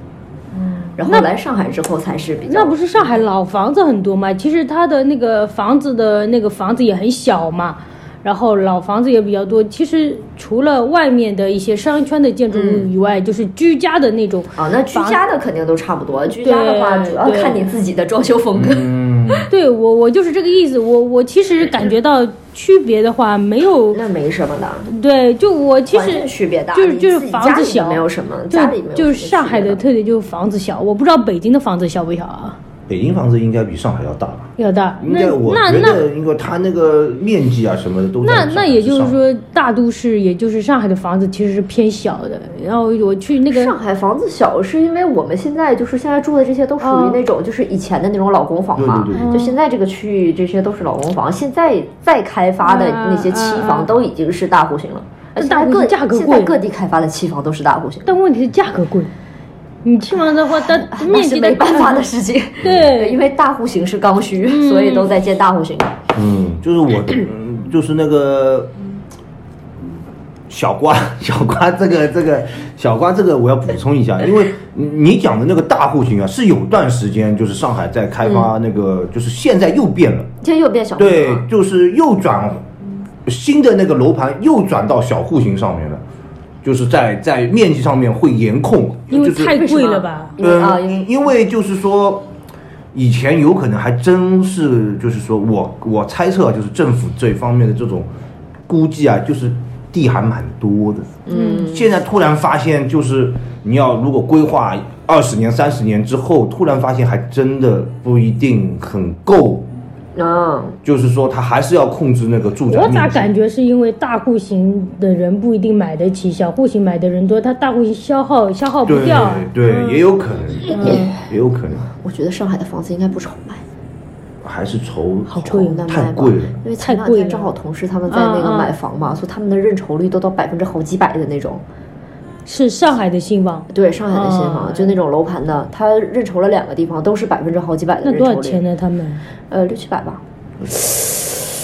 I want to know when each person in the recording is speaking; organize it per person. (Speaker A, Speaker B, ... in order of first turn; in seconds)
Speaker A: 0.6-1.3, 2.5-15.2, 16.4-17.7, 19.5-24.0, 24.9-32.6, 34.6-36.0, 38.2-43.8, 46.8-47.2, 49.1-49.6, 52.6-53.9, 55.4-56.6, 58.1-59.1, 59.8-63.2, 64.5-65.1, 89.1-90.3, 101.3-101.7, 112.7-120.0, 120.7-121.1, 125.3-125.8, 126.8-127.5, 128.1-128.7, 132.5-135.0, 138.0-139.2, 140.8-141.5
Speaker B: 1.0-2.8, 12.5-12.9, 14.6-18.8, 23.9-24.9, 25.9-29.8, 43.5-58.1, 60.5-66.0, 78.2-78.5, 80.4-81.5, 89.6-91.0, 101.3-101.9, 110.2-110.8, 121.9-123.6, 125.5-131.6, 133.7-138.6, 139.5-140.2
Speaker C: 18.5-19.5, 32.9-39.2, 48.8-49.4, 62.6-62.9, 66.1-68.7, 70.5-80.3, 81.0-82.7, 83.2-86.0, 86.6-89.6, 90.4-92.3, 92.9-98.1, 98.7-109.7, 110.8-113.3, 118.8-121.9, 124.4-126.6